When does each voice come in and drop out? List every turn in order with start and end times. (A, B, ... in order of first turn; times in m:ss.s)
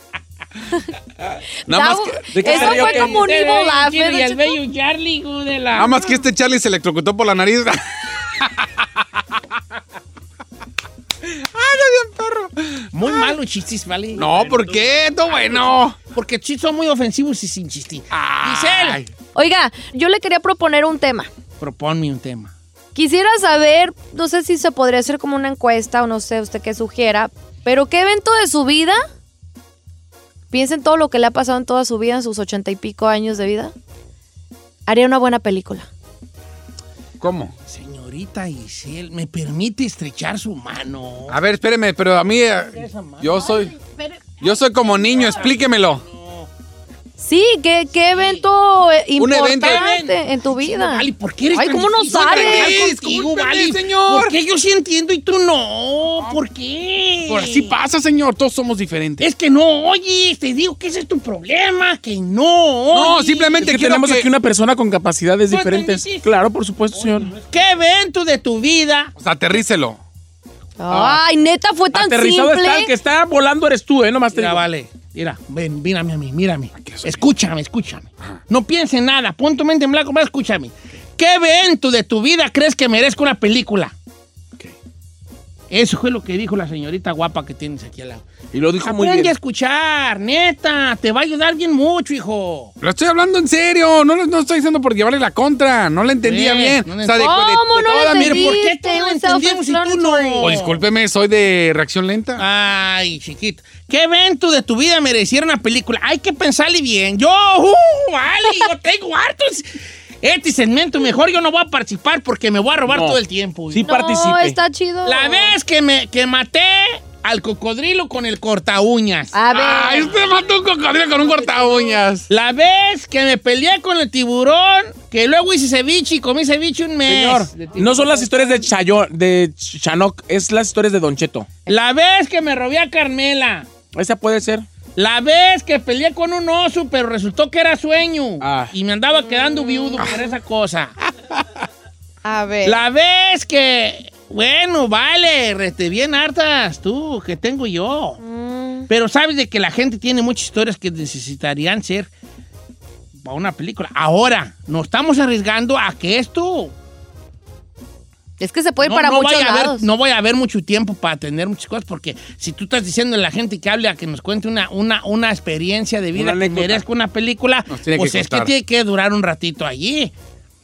0:01.7-0:02.3 A
0:01.7-0:04.6 B
0:02.3-0:03.1 C
0:02.4-0:06.0 D
0:05.7-0:09.2 A
0:11.2-0:12.9 A
0:12.9-0:19.0 D
0:14.1-0:16.0 A
0:18.1-0:19.1 A
0:19.3-0:21.3 B
0:21.6-0:22.5 D
0:22.9-0:29.0 B
0:30.5-0:33.7 B
0:34.9-0:35.9 B
0:37.2-0:37.5 A
0:37.7-0:41.4 D
0:41.3-0:43.7 A
0:42.7-0:46.5 D
0:44.4-0:46.0 A
0:47.2-0:52.8 B
0:48.1-0:48.4 D
0:49.2-0:49.8 A
0:49.6-0:57.7 D
0:52.1-0:54.4 A
0:57.3-0:59.3 A
0:59.2-1:03.9 D
1:02.9-1:04.3 A
1:03.6-1:07.4 C
1:05.5-1:06.3 D
1:07.0-1:09.1 D
1:09.2-1:10.0 A
1:10.8-1:12.9 B
1:10.9-1:11.2 C
1:11.9-1:14.6 C
1:14.3-1:23.9 D
1:16.8-1:17.3 A
1:25.7-1:28.2 D
1:28.5-1:29.3 C
1:28.8-1:32.7 D
1:32.8-1:38.6 A
1:36.2-1:37.3 D
1:37.1-1:40.5 B
1:38.0-1:40.8 D
1:40.4-1:42.4 A
1:42.4-1:49.7 D
1:50.2-1:53.9 D
1:52.9-1:53.2 C
1:53.7-1:54.6 C
1:53.8-1:55.5 B
1:55.0-1:59.3 D
1:59.3-2:00.2 B
1:59.5-2:02.3 A
2:02.3-2:08.7 D
2:07.0-2:11.5 C
2:11.6-2:13.7 D
2:13.9-2:14.6 C
2:15.0-2:20.9 D
2:18.4-2:18.7 C
2:19.5-2:19.9 B
2:22.2-2:22.8 B
2:22.6-2:28.2 D
2:28.2-2:28.9 B
2:28.9-2:32.1 D
2:33.2-2:36.7 D
2:38.4-2:39.8 B
2:38.8-2:50.1 D
2:46.1-2:46.8 C
2:47.7-2:48.5 A